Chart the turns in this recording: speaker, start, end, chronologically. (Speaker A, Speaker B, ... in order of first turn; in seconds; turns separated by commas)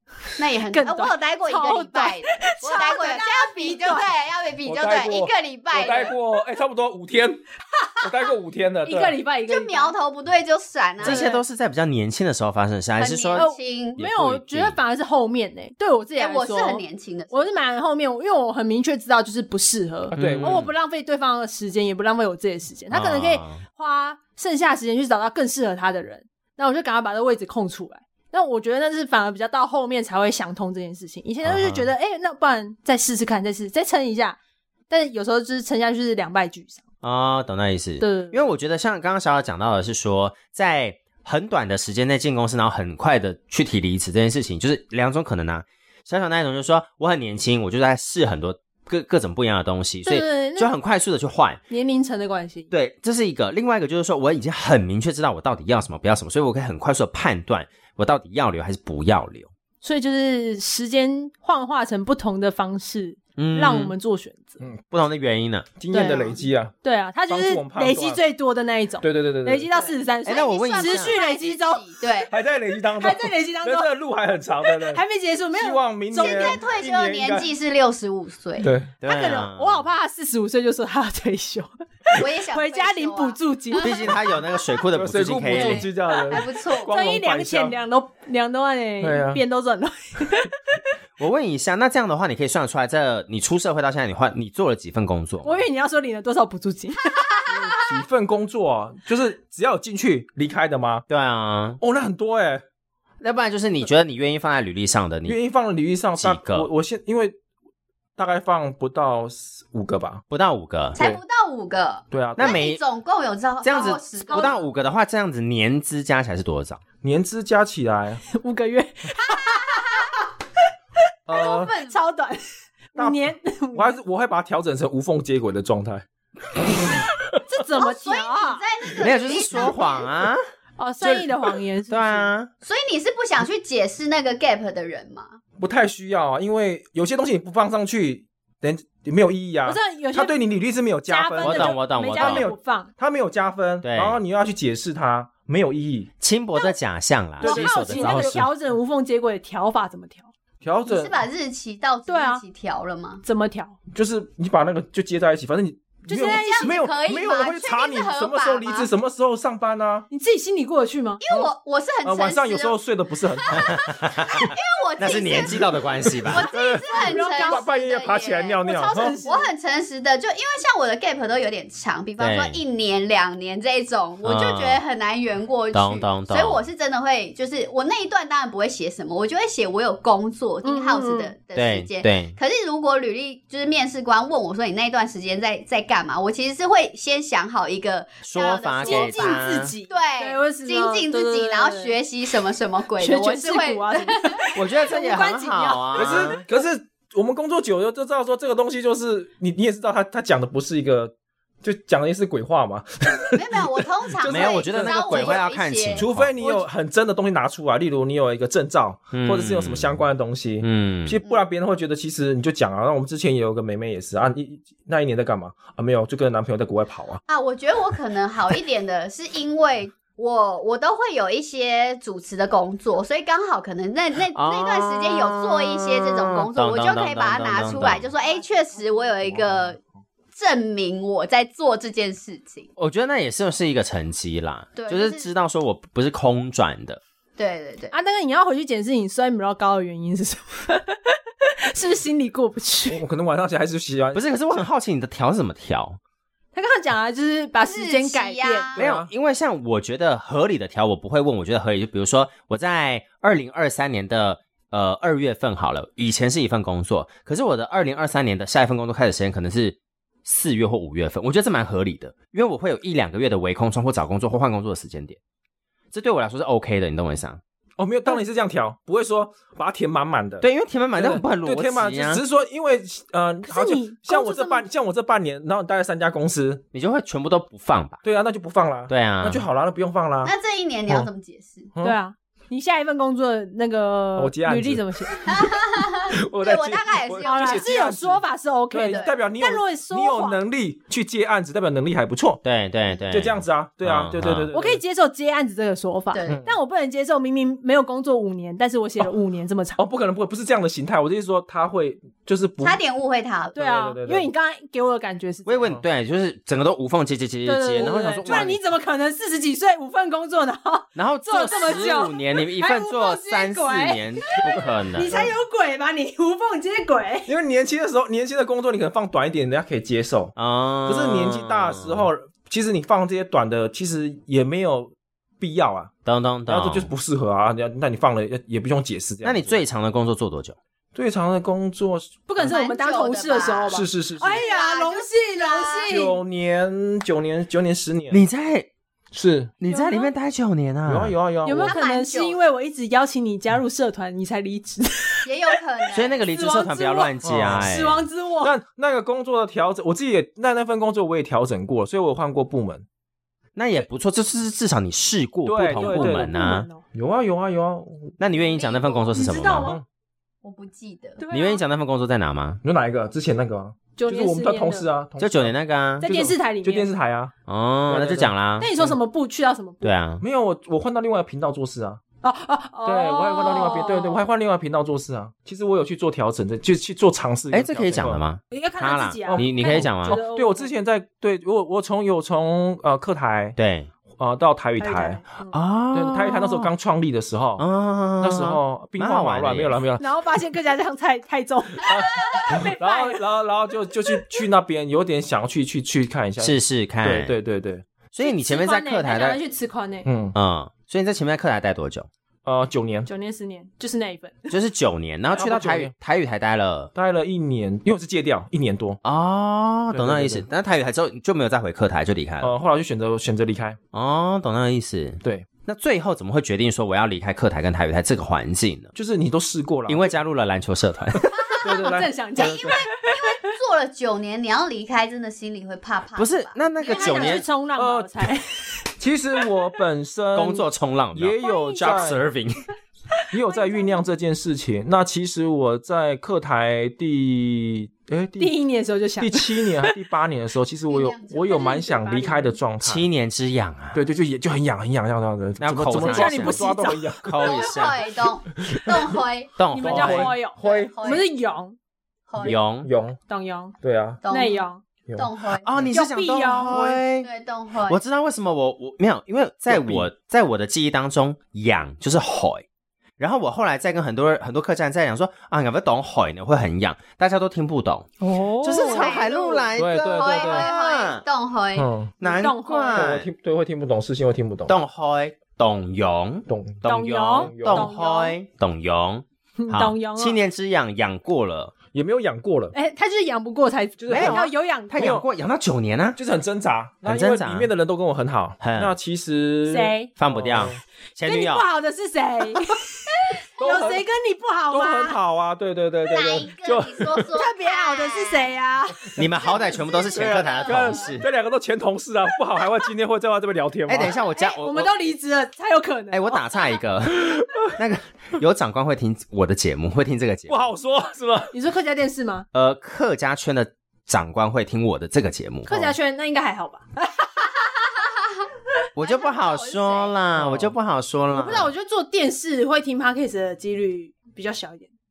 Speaker A: 0.4-6.2, Speaker B: 0.6-4.1, Speaker C: 4.7-7.4, Speaker C: 8.0-9.2, Speaker B: 8.8-9.9, Speaker A: 9.5-11.4, Speaker D: 11.0-13.5, Speaker B: 11.0-11.4, Speaker A: 13.0-14.0, Speaker B: 13.3-34.4, Speaker D: 14.0-14.8, Speaker A: 16.2-17.6, Speaker C: 20.1-20.6, Speaker D: 20.1-20.7, Speaker D: 22.9-23.6, Speaker D: 31.4-31.9, Speaker B: 34.9-36.8, Speaker D: 37.0-51.6, Speaker B: 38.0-38.5, Speaker B: 50.0-50.7, Speaker B: 51.7-52.7, Speaker D: 52.7-59.5, Speaker B: 59.8-64.6, Speaker D: 63.4-64.0, Speaker D: 64.9-65.7, Speaker C: 65.8-66.7, Speaker B: 65.9-71.9, Speaker C: 67.3-68.2, Speaker C: 69.0-69.7, Speaker A: 69.7-72.3, Speaker D: 70.2-71.2, Speaker C: 72.3-75.0, Speaker B: 73.0-73.9, Speaker B: 74.7-76.7, Speaker C: 75.5-77.5, Speaker A: 76.2-78.7, Speaker C: 78.6-78.9, Speaker D: 79.0-79.9, Speaker B: 79.0-84.2, Speaker A: 82.2-84.5, Speaker D: 83.8-85.9, Speaker C: 84.9-87.8, Speaker A: 85.5-86.9, Speaker B: 86.3-90.8, Speaker C: 89.0-89.4, Speaker D: 91.2-95.6, Speaker B: 95.4-97.2, Speaker A: 97.1-97.7, Speaker C: 97.5-101.0, Speaker D: 101.1-101.8, Speaker C: 101.8-102.6, Speaker D: 103.2-105.4, Speaker C: 105.2-107.3, Speaker D: 106.2-106.7, Speaker C: 108.2-110.2, Speaker D: 110.3-111.0, Speaker A: 111.0-114.7, Speaker C: 112.1-112.6, Speaker D: 112.4-112.8, Speaker D: 113.6-116.8, Speaker B: 114.3-114.6, Speaker C: 117.0-118.2, Speaker B: 118.3-120.1, Speaker A: 119.3-120.2, Speaker C: 121.3-121.7, Speaker A: 121.3-122.0, Speaker B: 121.4-124.0, Speaker C: 123.0-126.0, Speaker C: 126.8-127.4, Speaker B: 127.5-128.6, Speaker A: 127.8-130.1, Speaker D: 129.0-130.4, Speaker B: 130.8-132.3, Speaker D: 131.0-131.3, Speaker D: 131.9-132.5, Speaker A: 132.6-135.4, Speaker C: 135.6-146.1, Speaker B: 139.7-140.4, Speaker B: 141.1-142.9, Speaker D: 141.4-142.5, Speaker D: 143.8-144.2, Speaker D: 146.2-148.5, Speaker C: 147.4-148.5, Speaker B: 147.4-150.3, Speaker C: 150.6-151.2, Speaker A: 150.9-153.2, Speaker B: 152.1-152.4, Speaker B: 153.2-153.8, Speaker C: 153.9-160.1, Speaker B: 156.1-156.9, Speaker A: 156.2-158.9, Speaker B: 160.1-161.2, Speaker A: 161.2-162.8, Speaker C: 162.0-163.8, Speaker A: 163.4-168.6, Speaker D: 163.6-166.5, Speaker C: 166.3-169.2, Speaker B: 166.9-167.7, Speaker B: 168.6-169.5, Speaker A: 169.2-194.5, Speaker D: 172.2-172.6, Speaker D: 174.2-174.8, Speaker D: 175.7-176.6, Speaker B: 180.6-181.3, Speaker D: 181.6-182.4, Speaker D: 188.2-189.7, Speaker B: 188.8-192.0, Speaker B: 193.0-196.4, Speaker D: 194.6-196.4, Speaker C: 195.9-205.4, Speaker A: 203.3-206.0, Speaker D: 204.2-206.3, Speaker C: 205.9-217.2, Speaker D: 209.1-210.0, Speaker D: 210.6-211.2, Speaker A: 217.3-229.8, Speaker D: 224.3-228.1, Speaker C: 229.3-229.6, Speaker A: 230.3-232.7, Speaker D: 232.8-237.0, Speaker A: 234.8-235.3, Speaker A: 237.4-237.9, Speaker B: 237.9-243.0, Speaker C: 242.9-244.6, Speaker D: 244.1-246.0, Speaker B: 246.6-248.7, Speaker A: 247.7-248.8, Speaker C: 248.8-249.1, Speaker D: 248.8-265.2, Speaker D: 265.9-267.4, Speaker C: 267.8-276.6, Speaker D: 270.4-272.2, Speaker B: 273.5-274.7, Speaker D: 276.7-278.0, Speaker C: 278.0-280.3, Speaker D: 278.9-279.4, Speaker A: 280.2-281.7, Speaker B: 281.8-285.2, Speaker C: 284.2-285.3, Speaker A: 285.3-287.8, Speaker C: 286.2-292.4, Speaker B: 287.2-290.4, Speaker A: 288.9-289.1, Speaker D: 292.4-294.5, Speaker C: 293.1-294.8, Speaker B: 294.5-299.8, Speaker A: 296.1-296.4, Speaker C: 296.3-296.6, Speaker C: 299.8-302.8, Speaker A: 302.6-303.6, Speaker B: 303.6-305.6, Speaker C: 303.6-304.3, Speaker D: 305.5-308.6, Speaker B: 307.4-317.3, Speaker C: 308.2-308.6, Speaker D: 311.0-315.1, Speaker C: 317.3-320.3, Speaker D: 320.4-322.1, Speaker C: 320.9-325.9, Speaker D: 326.1-326.9, Speaker C: 326.5-329.6, Speaker D: 329.2-330.6, Speaker C: 330.9-332.6, Speaker B: 332.3-336.2, Speaker A: 332.4-335.9, Speaker C: 333.7-334.4, Speaker C: 335.9-338.2, Speaker D: 338.1-338.7, Speaker C: 339.1-339.5, Speaker D: 339.6-341.1, Speaker B: 339.7-340.1, Speaker C: 340.9-341.8, Speaker B: 341.4-345.6, Speaker A: 341.6-342.4, Speaker A: 345.2-346.3, Speaker D: 345.9-348.0, Speaker B: 346.2-348.5, Speaker C: 347.2-347.7, Speaker C: 348.4-352.9, Speaker D: 353.6-356.7, Speaker C: 355.4-356.3, Speaker B: 355.7-356.8, Speaker C: 356.9-358.2, Speaker D: 358.2-359.8, Speaker A: 358.4-359.4, Speaker B: 359.1-359.8, Speaker C: 359.6-359.9, Speaker A: 360.4-361.2, Speaker B: 361.2-361.6, Speaker D: 361.3-362.6, Speaker C: 362.6-367.3, Speaker B: 364.0-364.9, Speaker D: 365.2-366.1, Speaker B: 366.0-366.9, Speaker D: 367.5-368.7, Speaker C: 367.9-369.0, Speaker B: 368.6-369.9, Speaker D: 369.8-370.2, Speaker C: 370.2-372.0, Speaker B: 372.2-374.3, Speaker C: 372.9-378.2, Speaker D: 377.5-380.2, Speaker B: 378.5-380.7, Speaker C: 379.3-383.6, Speaker D: 383.6-383.9, Speaker C: 384.2-385.2, Speaker B: 384.8-385.6, Speaker D: 385.5-386.7, Speaker C: 385.9-387.6, Speaker D: 387.6-389.8, Speaker C: 388.2-390.1, Speaker B: 390.0-393.2, Speaker C: 391.8-397.9, Speaker D: 396.4-397.3, Speaker D: 398.1-399.4, Speaker B: 398.2-400.1, Speaker C: 400.1-400.4, Speaker D: 400.4-402.1, Speaker C: 402.4-403.1, Speaker B: 403.1-404.6, Speaker D: 404.5-406.9, Speaker C: 405.4-405.9, Speaker C: 406.9-409.0, Speaker D: 409.0-412.5, Speaker C: 409.9-410.5, Speaker C: 412.4-413.8, Speaker D: 413.9-418.9, Speaker C: 418.9-420.2, Speaker D: 419.9-421.5, Speaker B: 421.4-423.5, Speaker C: 421.6-422.8, Speaker A: 422.4-427.4, Speaker D: 426.2-427.5, Speaker B: 426.8-428.7, Speaker C: 427.8-428.1, Speaker C: 429.0-432.2, Speaker D: 430.4-432.6, Speaker B: 431.4-432.2, Speaker C: 433.3-438.5, Speaker B: 433.3-434.1, Speaker B: 438.4-440.0, Speaker C: 439.2-443.1, Speaker A: 440.9-441.7, Speaker B: 441.4-442.6, Speaker D: 442.8-444.0, Speaker C: 443.9-447.3, Speaker D: 445.6-446.7, Speaker B: 445.9-447.8, Speaker D: 447.2-448.1, Speaker A: 447.4-449.5, Speaker C: 448.6-449.1, Speaker D: 449.6-450.4, Speaker B: 449.7-451.8, Speaker C: 449.8-451.2, Speaker A: 450.6-451.3, Speaker A: 452.3-452.6, Speaker C: 452.4-453.2, Speaker D: 452.4-452.9, Speaker B: 453.3-453.8, Speaker C: 453.8-454.2, Speaker A: 454.2-454.6, Speaker B: 454.3-454.8, Speaker C: 455.1-455.9, Speaker A: 455.2-455.8, Speaker D: 455.6-457.3, Speaker B: 455.9-456.8, Speaker C: 456.6-457.0, Speaker A: 457.2-458.0, Speaker D: 457.9-462.6, Speaker C: 459.7-460.1, Speaker D: 463.2-471.2, Speaker C: 468.2-468.8, Speaker B: 468.4-469.2, Speaker A: 468.7-471.9, Speaker C: 469.8-470.7, Speaker C: 471.8-472.1, Speaker D: 472.2-473.3, Speaker B: 472.2-473.1, Speaker C: 472.9-474.8, Speaker D: 474.7-481.7, Speaker C: 476.5-477.9, Speaker B: 476.9-478.4, Speaker B: 479.6-480.4, Speaker C: 481.9-482.8, Speaker B: 482.7-485.1, Speaker C: 484.0-484.4, Speaker D: 484.1-486.2, Speaker C: 485.0-485.2, Speaker C: 486.2-490.8, Speaker D: 487.1-487.7, Speaker D: 488.6-488.9, Speaker B: 489.7-490.1, Speaker D: 490.2-491.6, Speaker B: 491.2-495.2, Speaker C: 493.6-494.1, Speaker C: 494.7-497.3, Speaker A: 496.1-498.6, Speaker B: 497.4-499.2, Speaker D: 499.2-501.3, Speaker A: 499.3-501.2, Speaker C: 500.1-504.2, Speaker D: 503.9-504.9, Speaker B: 504.4-506.6, Speaker D: 506.1-510.6, Speaker C: 507.1-507.6, Speaker C: 510.5-511.5, Speaker B: 511.5-512.5, Speaker D: 512.5-516.0, Speaker B: 515.7-517.3, Speaker D: 519.0-521.7, Speaker A: 519.0-520.1, Speaker C: 520.4-520.7, Speaker B: 521.3-524.9